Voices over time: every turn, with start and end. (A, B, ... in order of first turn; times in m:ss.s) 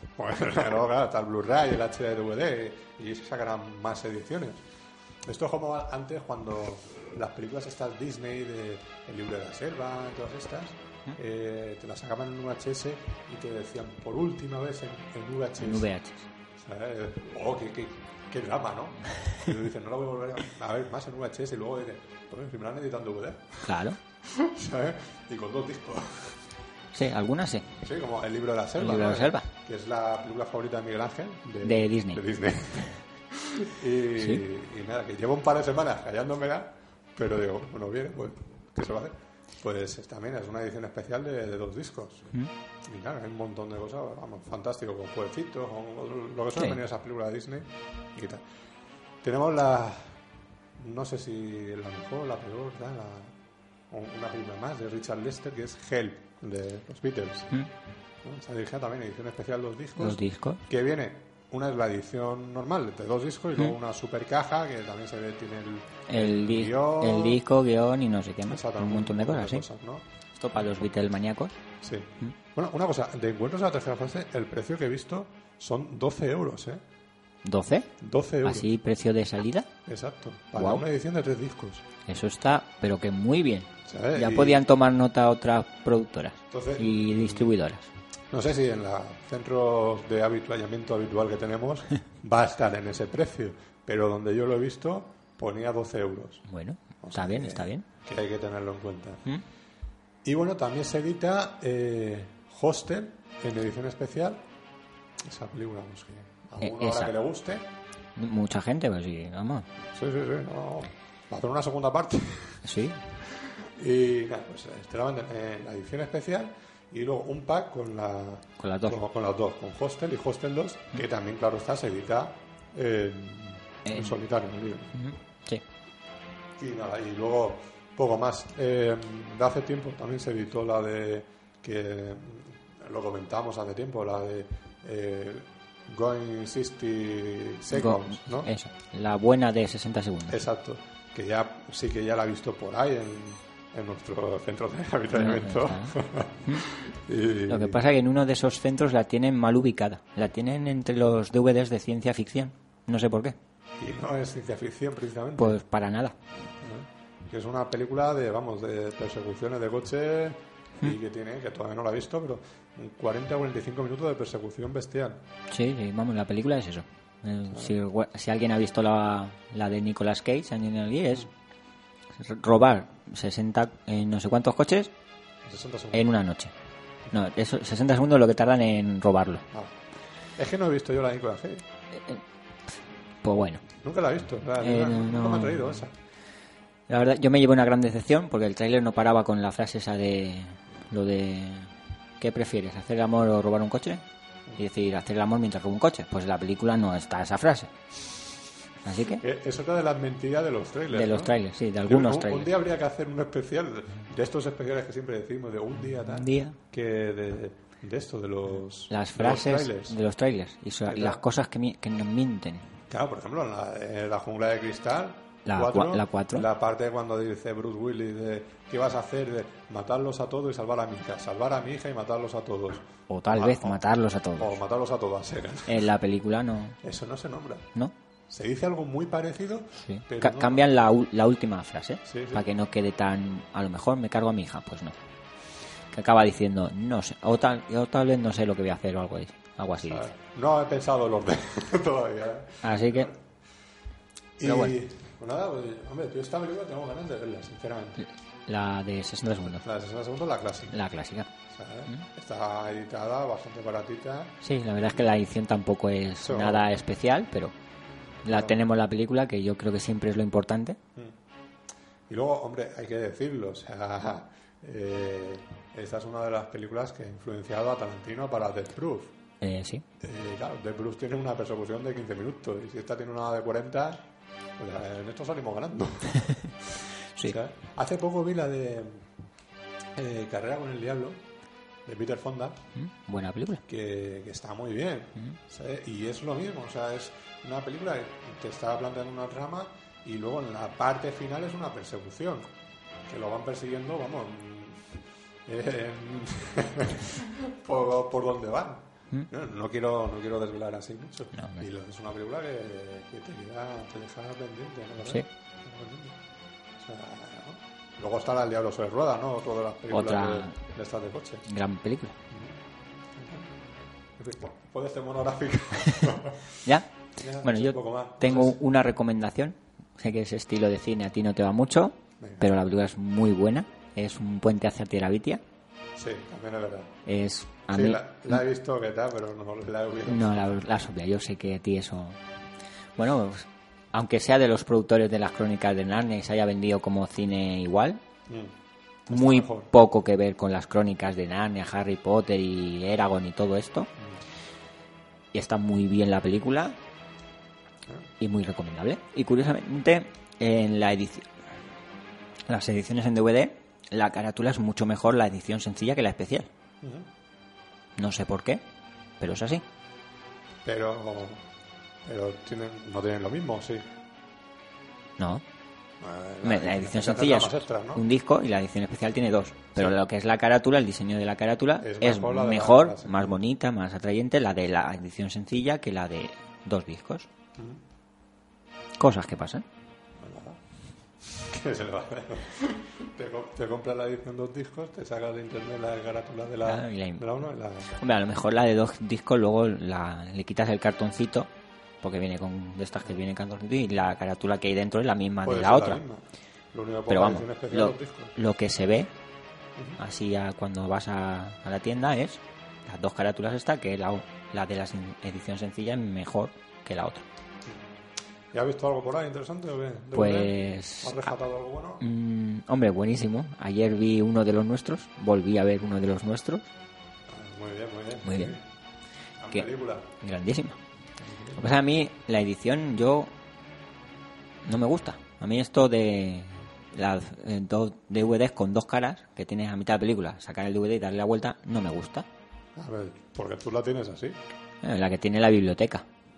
0:00.2-0:04.6 A
0:05.2-0:15.9 A
0:15.6-0:16.3 B
0:16.6-0:26.4 A
0:23.6-0:24.0 B
0:26.9-0:27.8 B
0:27.8-0:42.3 A
0:28.8-0:29.5 B
0:31.6-0:32.2 B
0:42.8-0:48.4 A
0:49.2-0:50.2 A
0:50.8-0:53.3 A
0:53.9-0:57.6 A
0:58.2-1:07.4 A
1:00.0-1:00.6 B
1:06.1-1:09.6 B
1:08.5-1:10.0 A
1:10.3-1:11.6 B
1:11.8-1:16.8 A
1:17.4-1:17.9 B
1:18.0-1:18.7 A
1:18.4-1:19.7 B
1:19.8-1:21.8 A
1:20.6-1:20.8 B
1:22.0-1:27.9 B
1:23.8-1:24.6 A
1:26.5-1:27.5 A
1:28.3-1:36.4 A
1:36.5-1:37.8 B
1:37.0-1:39.2 A
1:40.2-1:44.4 A
1:45.2-1:47.7 A
1:46.6-1:47.1 B
1:48.2-1:49.7 B
1:49.9-1:52.6 A
1:52.6-1:53.0 B
1:53.2-2:04.9 A
1:58.6-1:59.0 B
2:03.8-2:04.2 B
2:04.9-2:05.6 B
2:06.6-2:18.5 A
2:17.7-2:20.4 B
2:20.3-2:27.8 A
2:25.1-2:26.6 B
2:27.5-2:33.4 B
2:33.8-2:35.6 A
2:35.4-2:36.1 B
2:36.6-2:45.2 A
2:45.5-2:51.3 B
2:52.2-2:54.9 B
2:55.4-2:56.1 A
2:55.9-2:56.5 B
2:57.1-2:59.4 B
3:00.4-3:01.6 A
3:01.9-3:02.2 B
3:03.2-3:03.6 B
3:03.8-3:05.9 A
3:04.6-3:05.8 B
3:06.9-3:14.0 B
3:14.6-3:17.7 B
3:18.8-3:19.2 B
3:19.2-3:21.3 A
3:20.9-3:22.5 B
3:21.8-3:30.0 A
3:26.1-3:26.6 B
3:28.9-3:32.7 B
3:30.9-3:31.2 A
3:32.9-3:43.8 A
3:35.4-3:36.5 B
3:43.1-3:44.6 B
3:44.4-3:45.8 A
3:45.6-3:46.8 B
3:46.8-3:47.7 A
3:48.3-3:50.6 A
3:49.8-3:55.0 B
3:52.0-3:52.4 A
3:55.9-4:00.1 B
3:59.9-4:03.2 A
4:02.6-4:03.1 B
4:04.4-4:08.0 A
4:04.4-4:04.8 B
4:08.5-4:09.6 B
4:09.5-4:10.8 A
4:10.7-4:11.3 B
4:11.5-4:14.4 A
4:14.4-4:17.5 B
4:16.2-4:16.7 A
4:18.2-4:20.8 B
4:18.3-4:18.6 A
4:22.1-4:29.1 A
4:29.4-4:29.8 B
4:30.0-4:34.1 A
4:34.6-4:39.0 A
4:36.2-4:36.5 B
4:40.0-4:41.2 A
4:41.8-4:42.6 A
4:42.7-4:43.6 B
4:43.7-4:52.5 A
4:53.0-5:06.2 A
5:01.3-5:01.6 B
5:06.8-5:11.4 A
5:09.9-5:10.6 B
5:11.4-5:12.2 B
5:12.3-5:12.6 A
5:13.1-5:13.5 A
5:14.2-5:16.6 A
5:16.6-5:25.4 B
5:17.2-5:18.6 A
5:25.9-5:27.0 A
5:27.0-5:28.4 B
5:27.7-5:30.4 A
5:30.1-5:32.2 B
5:33.0-5:38.0 B
5:38.3-5:38.5 A
5:39.1-5:39.7 A
5:39.1-5:43.9 B
5:45.3-5:46.8 B
5:48.2-5:51.3 B
5:52.5-5:56.5 B
5:56.8-5:57.1 A
5:58.0-5:58.6 B
5:59.2-5:59.6 B
6:00.6-6:01.4 A
6:02.0-6:03.9 A
6:05.2-6:05.4 B
6:06.0-6:08.0 A
6:06.4-6:17.3 B
6:11.8-6:13.4 A
6:19.0-6:19.6 B
6:20.2-6:20.6 A
6:21.2-6:28.0 A
6:26.6-6:27.2 B
6:27.9-6:31.5 B
6:32.0-6:36.0 B
6:35.4-6:38.3 A
6:37.1-6:39.1 B
6:40.0-6:47.2 B
6:48.5-6:52.0 A
6:50.1-6:51.3 B
6:52.0-6:56.7 B
6:57.3-6:58.6 A
6:58.2-6:58.6 B
6:59.4-7:00.1 A
7:00.2-7:00.8 B
7:01.2-7:01.6 A
7:01.5-7:03.3 B
7:04.6-7:12.2 B
7:12.8-7:14.4 A
7:14.8-7:16.0 B